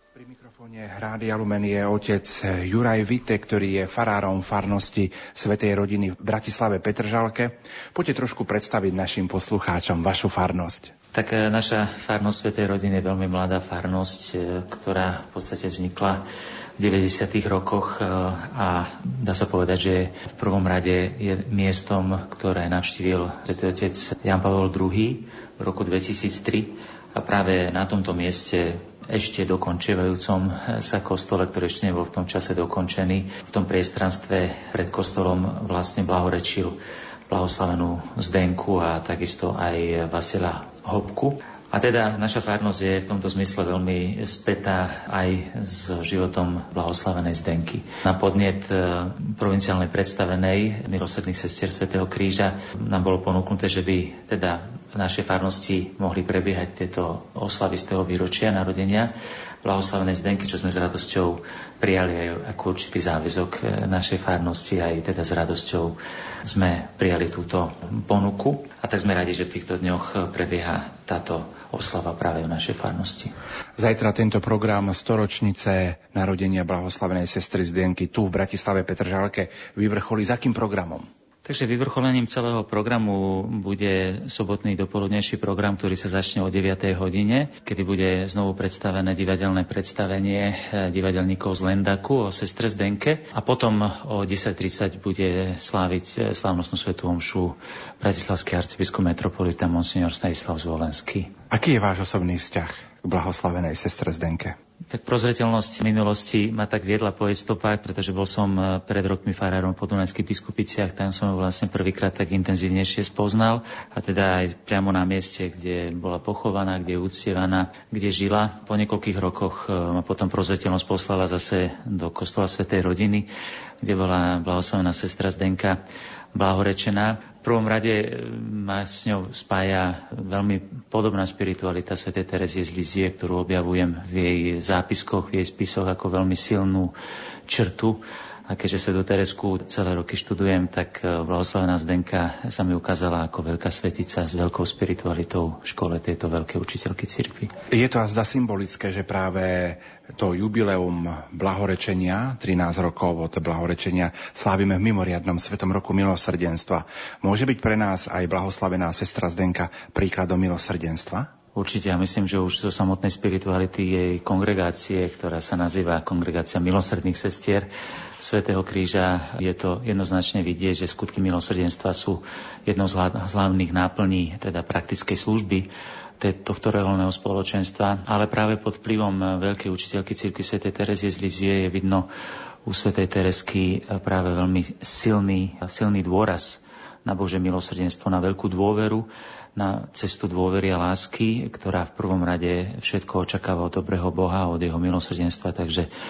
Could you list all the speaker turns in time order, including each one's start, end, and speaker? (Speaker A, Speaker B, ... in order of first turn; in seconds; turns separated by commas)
Speaker A: 0.1-10.9, Speaker B: 11.1-16.3, Speaker B: 16.8-36.8, Speaker B: 37.3-59.1, Speaker B: 59.6-73.3, Speaker A: 73.8-81.1, Speaker B: 81.5-101.3, Speaker A: 101.5-104.6, Speaker B: 104.9-123.3, Speaker B: 123.8-125.8, Speaker B: 126.3-136.9, Speaker B: 137.5-147.5, Speaker A: 147.7-161.3, Speaker B: 161.6-175.7, Speaker B: 176.2-182.1, Speaker B: 182.7-195.9